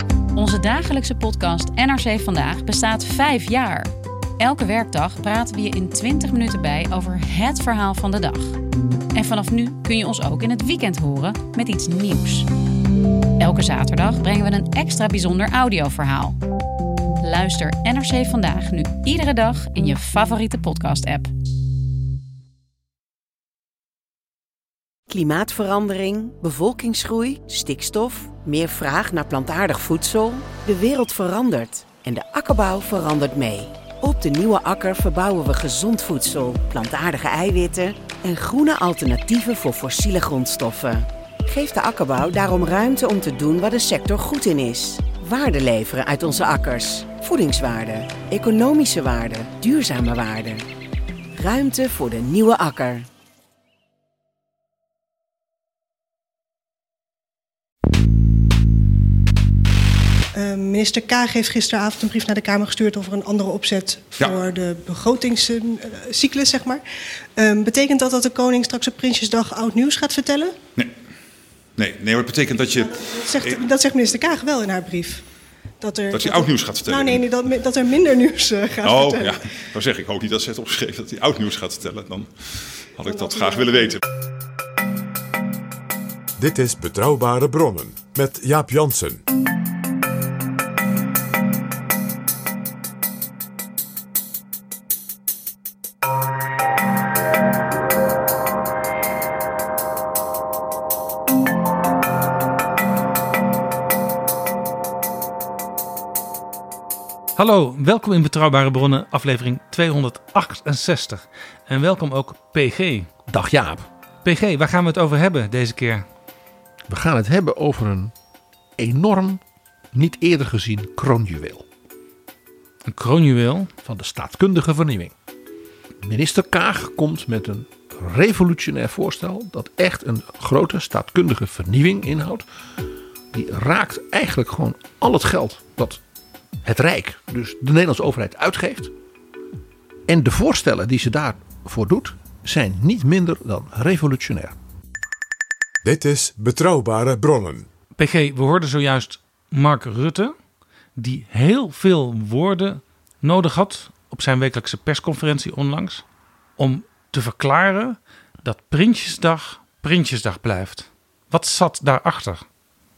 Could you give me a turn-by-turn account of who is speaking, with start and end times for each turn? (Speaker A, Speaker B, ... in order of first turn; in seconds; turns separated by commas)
Speaker A: 0.3-8.6, Speaker A: 9.1-12.5, Speaker A: 13.4-16.4, Speaker A: 17.2-21.3, Speaker B: 25.1-50.7, Speaker B: 51.3-53.1, Speaker C: 60.4-66.8, Speaker C: 67.3-70.5, Speaker D: 71.8-73.6, Speaker C: 73.0-75.2, Speaker C: 75.8-79.4, Speaker D: 76.1-77.2, Speaker D: 78.8-84.0, Speaker E: 86.4-89.2, Speaker F: 107.3-113.1, Speaker G: 113.3-113.9, Speaker F: 114.2-116.1, Speaker G: 116.9-118.1, Speaker G: 118.8-119.4, Speaker G: 119.9-121.7, Speaker F: 122.8-123.7, Speaker G: 123.8-125.1, Speaker G: 126.0-132.4, Speaker G: 133.3-136.0, Speaker G: 136.6-138.9, Speaker G: 140.1-144.6, Speaker E: 145.8-147.7, Speaker F: 148.0-150.3, Speaker F: 150.9-156.0, Speaker F: 156.6-162.4